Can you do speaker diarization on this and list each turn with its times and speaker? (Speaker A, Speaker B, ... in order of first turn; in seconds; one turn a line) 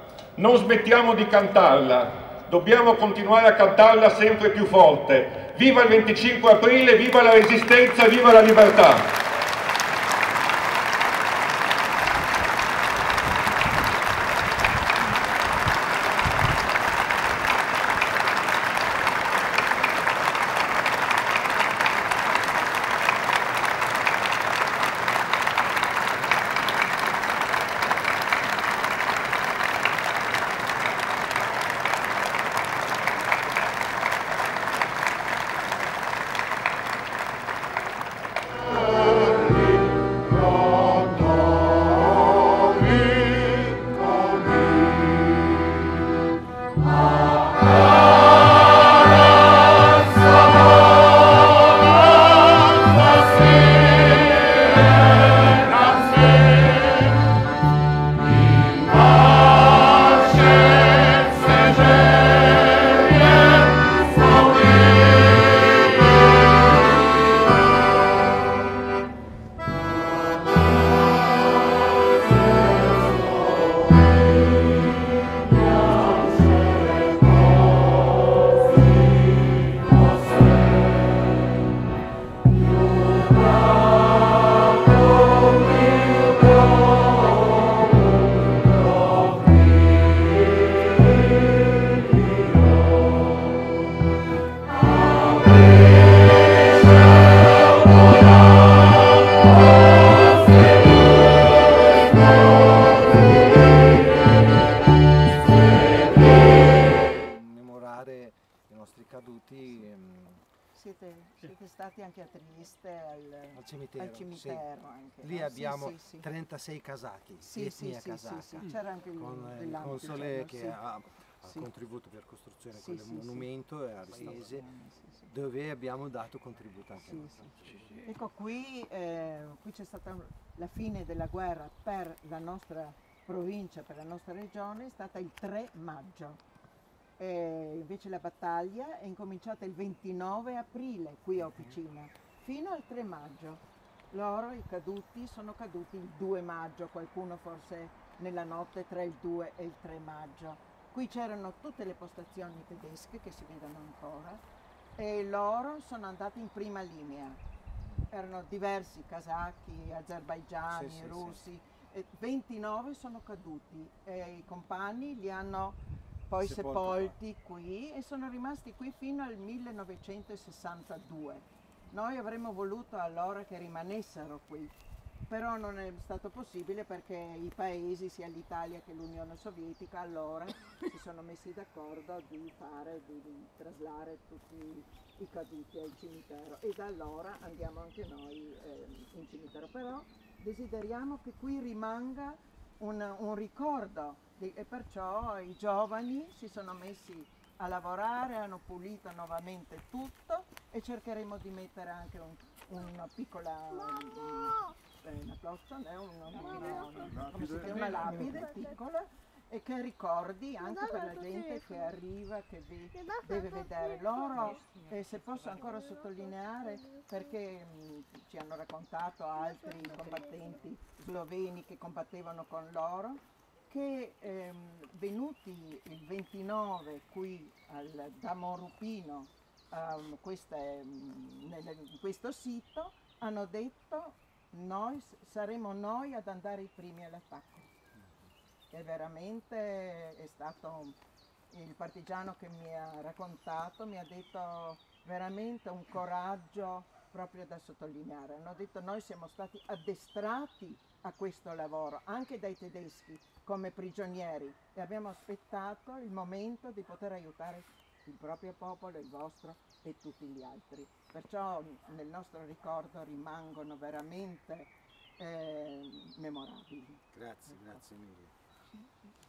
Speaker A: 0.4-9.1
Speaker B: 107.0-110.4
Speaker C: 110.7-116.3
Speaker B: 113.5-114.6
Speaker B: 115.2-124.7
Speaker C: 117.4-120.8
Speaker C: 122.7-123.5
Speaker C: 124.1-125.3
Speaker B: 125.2-128.1
Speaker C: 127.0-127.5
Speaker C: 128.0-136.4
Speaker C: 137.2-154.4
Speaker C: 155.0-157.4
Speaker C: 158.1-174.8
Speaker B: 160.7-161.4
Speaker B: 166.4-167.2
Speaker C: 175.3-237.7
Speaker C: 238.7-241.0
Speaker C: 241.5-267.0
Speaker B: 267.1-268.3